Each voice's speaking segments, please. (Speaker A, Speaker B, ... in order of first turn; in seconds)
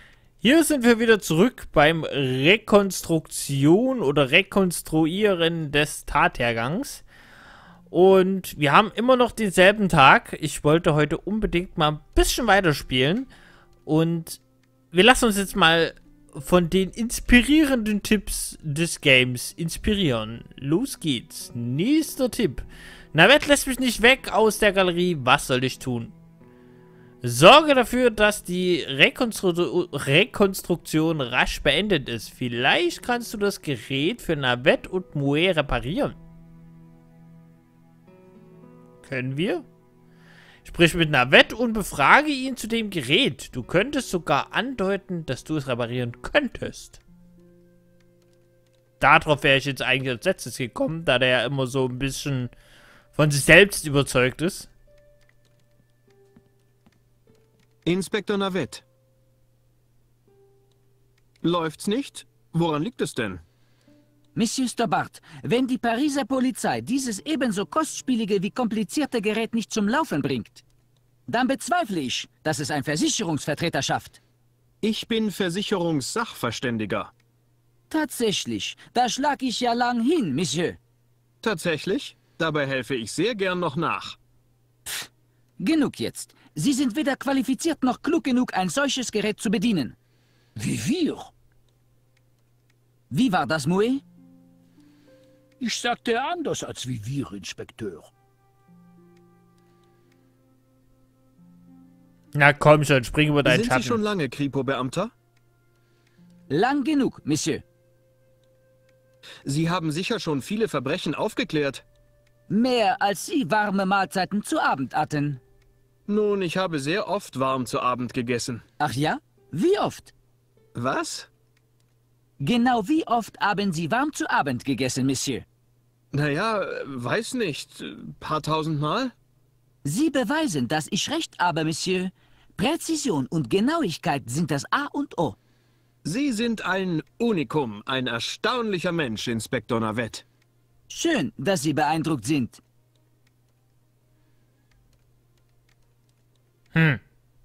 Speaker A: 0.4-7.0, 7.9-13.3, 13.9-14.4, 14.9-26.1, 27.2-36.2, 39.0-39.6, 40.6-47.0, 49.0-52.5, 53.1-54.7, 102.3-104.0, 146.8-147.0
Speaker B: 57.9-58.9, 61.4-63.4, 74.8-77.1, 81.4-84.2, 103.5-105.1, 109.5-111.8, 116.1-118.6, 120.8-121.3, 126.1-129.1, 136.0-140.2
Speaker C: 64.3-70.6, 71.3-74.2, 77.9-80.8, 85.6-90.0, 93.1-94.0, 106.5-107.6, 112.5-115.4, 118.8-120.1, 122.4-125.5, 129.8-135.4, 140.9-142.6
Speaker D: 90.6-91.3, 95.6-98.1